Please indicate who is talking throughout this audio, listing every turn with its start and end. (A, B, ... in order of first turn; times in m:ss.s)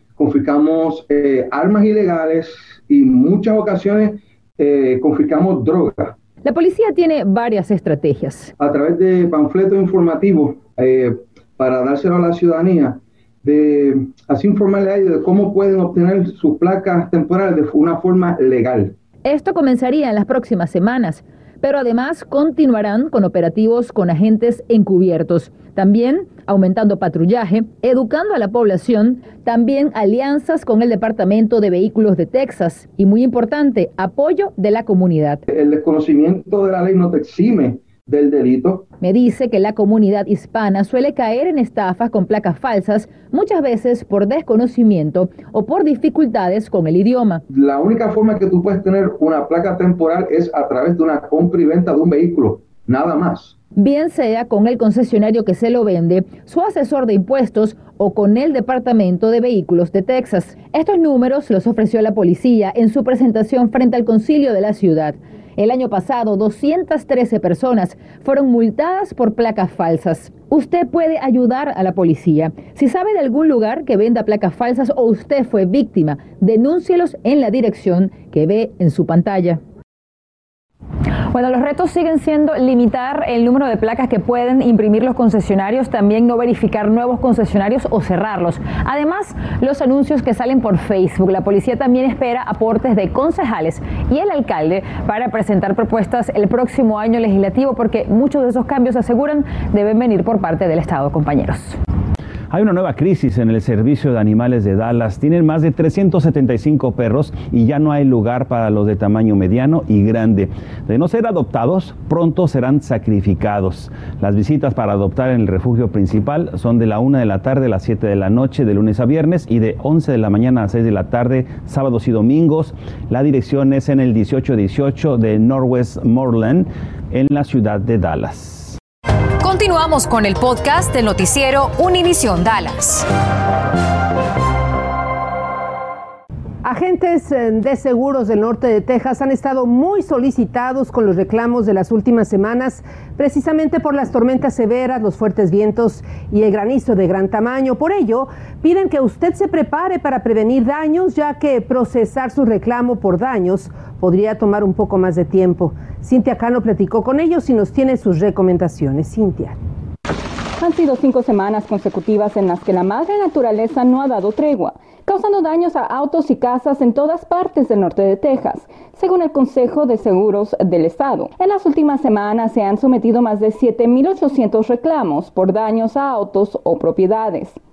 0:00.2-0:06.2 A
0:06.4-0:08.5 B
0:08.6-0:18.9 A
0:19.2-0:35.4 B
0:35.5-0:38.8 A
0:39.0-0:47.4 B
0:47.5-0:53.5 A
0:53.8-1:19.6 B
1:21.3-1:41.7 B
1:42.5-2:08.8 C
2:09.4-2:13.0 D
2:16.6-2:39.6 E
2:40.6-2:57.6 F